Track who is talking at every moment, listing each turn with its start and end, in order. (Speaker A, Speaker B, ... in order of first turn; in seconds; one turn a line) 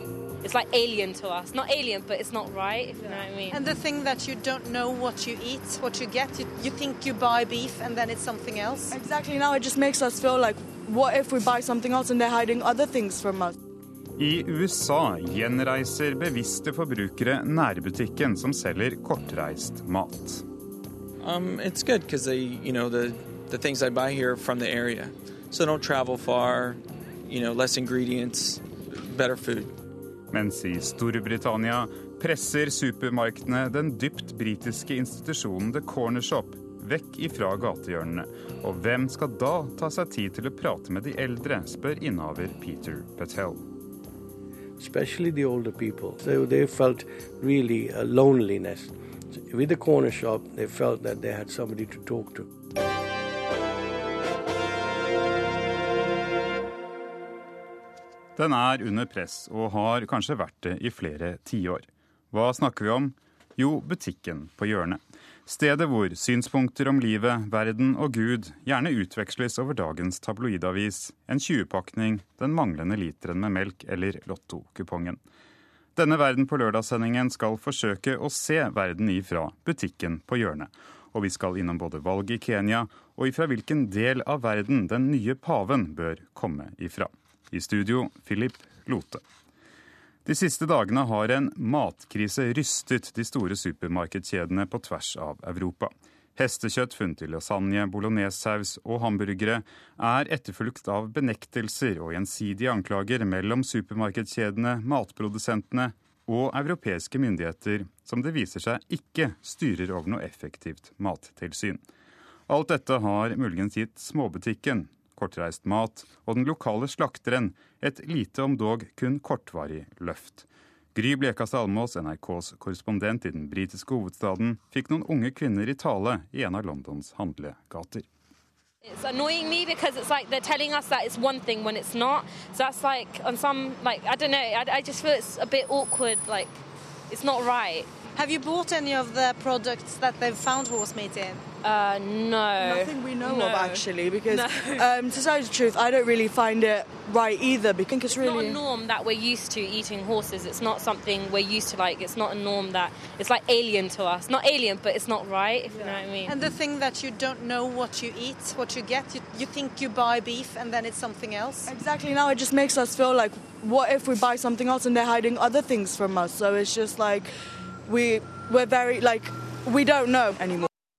Speaker A: 0.4-3.6
Speaker B: 3.0-8.9
Speaker C: 8.9-13.6
Speaker D: 14.2-20.4
Speaker E: 21.2-29.7
Speaker D: 30.3-43.6
Speaker F: 44.8-52.5
Speaker D: 58.4-75.2
Speaker D: 76.0-89.2
Speaker D: 90.2-111.8
Speaker D: 112.5-128.1
Speaker A: 128.9-136.6
Speaker A: 137.1-137.9
Speaker B: 138.2-141.4
Speaker A: 141.6-144.9
Speaker C: 142.6-148.6
Speaker A: 148.1-156.4
Speaker C: 155.7-156.0
Speaker B: 156.3-161.7
Speaker C: 161.7-167.3
Speaker C: 167.9-170.7